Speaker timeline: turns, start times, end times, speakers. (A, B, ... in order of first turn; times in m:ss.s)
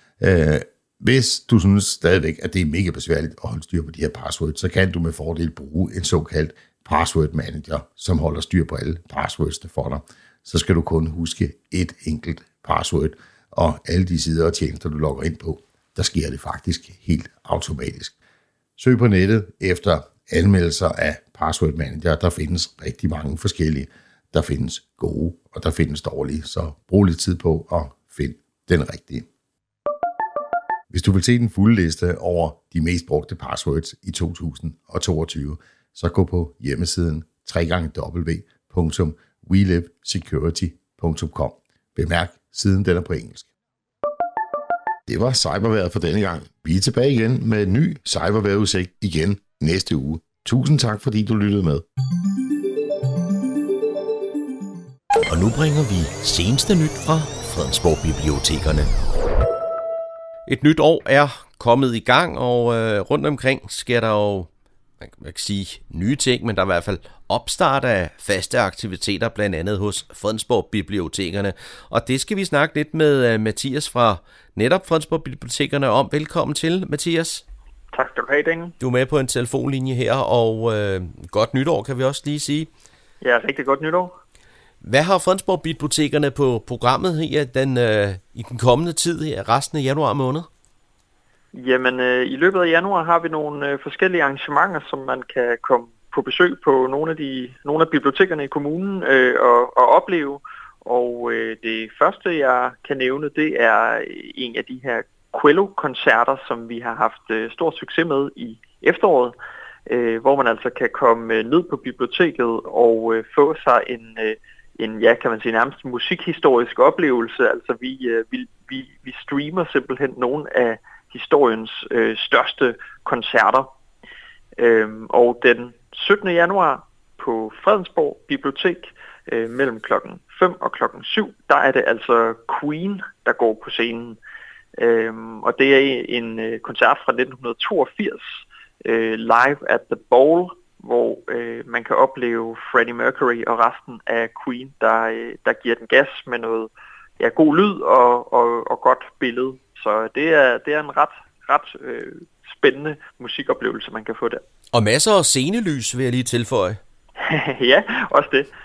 0:00.2-0:18.1 A
0:18.8-0:29.3 A
0:30.9-0:43.5 A
0:45.1-0:51.8 A
0:55.3-0:58.9 B
1:00.5-1:04.5 B
1:05.0-1:17.4 B
1:17.9-1:18.8 C
1:18.8-1:22.7 B
1:23.2-1:24.1 C
1:24.8-1:30.5 B
1:31.5-1:49.4 C
1:49.9-2:03.7 C
2:04.6-2:14.2 C
2:14.8-2:34.4 C
2:34.7-2:36.8 B
2:37.2-2:38.5 C